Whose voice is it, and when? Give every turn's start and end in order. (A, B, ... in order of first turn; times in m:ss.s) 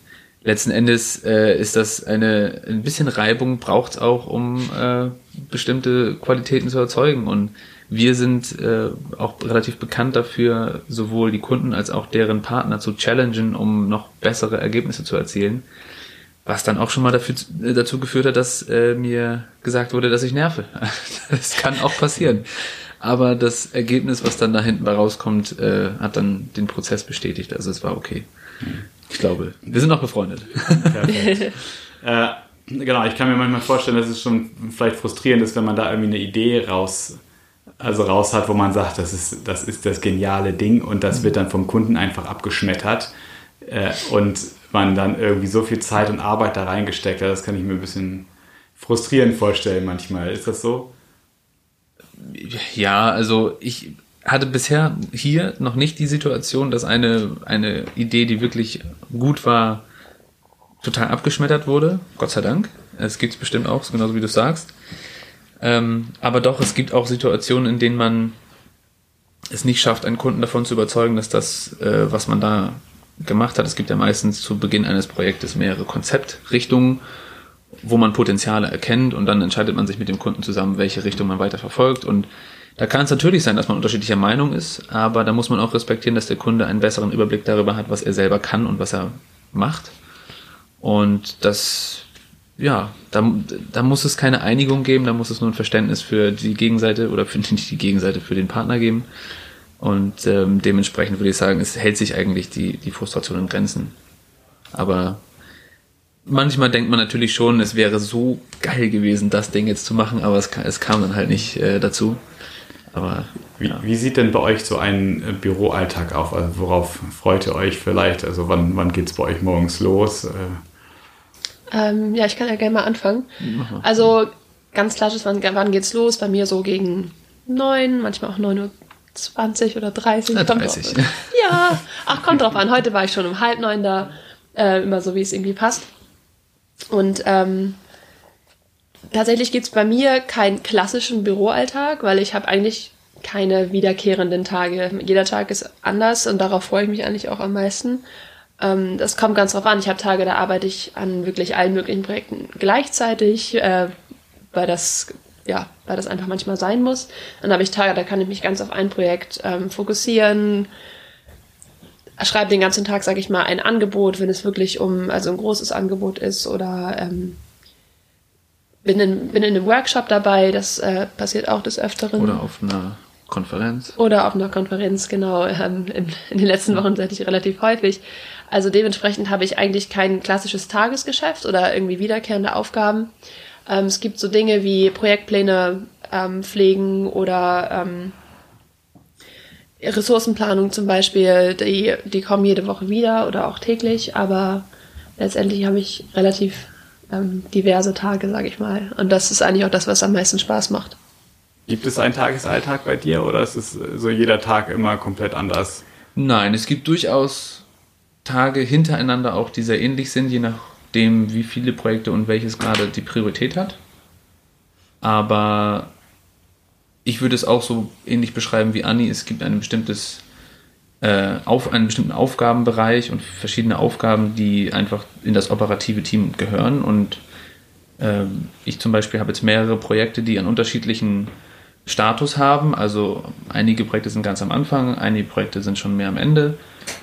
0:00.4-0:15.7 A
0:16.4-0:28.3 A
0:28.6-0:28.9 B
0:29.0-0:31.2 A
0:30.8-0:37.2 B
0:37.8-0:50.9 B
0:52.2-0:59.9 A
1:00.8-1:04.7 A
1:05.6-1:08.4 A
1:09.5-1:17.0 A
1:17.8-1:30.0 A
1:30.8-1:32.1 A
1:32.6-1:39.1 A
1:39.8-1:44.0 A
1:44.7-1:45.2 A
1:46.3-1:52.2 A
1:52.9-1:53.8 A
1:53.6-2:00.6 B
2:01.7-2:15.9 C
2:03.4-2:03.9 A
2:10.3-2:11.3 A
2:16.9-2:17.8 C
2:19.1-2:28.0 C
2:28.6-2:33.9 C
2:34.5-2:40.7 C
2:42.2-2:47.4 C
2:48.8-2:52.4 C
2:52.2-2:54.0 A
2:54.0-3:03.1 C
3:03.7-3:08.2 C
3:09.8-3:21.0 C
3:21.7-3:25.8 B
3:26.2-3:27.7 A
3:28.2-3:33.8 A
3:35.0-3:35.9 A
3:37.0-3:40.2 A
3:41.0-3:47.2 A
3:48.0-3:51.3 A
3:51.9-3:56.6 A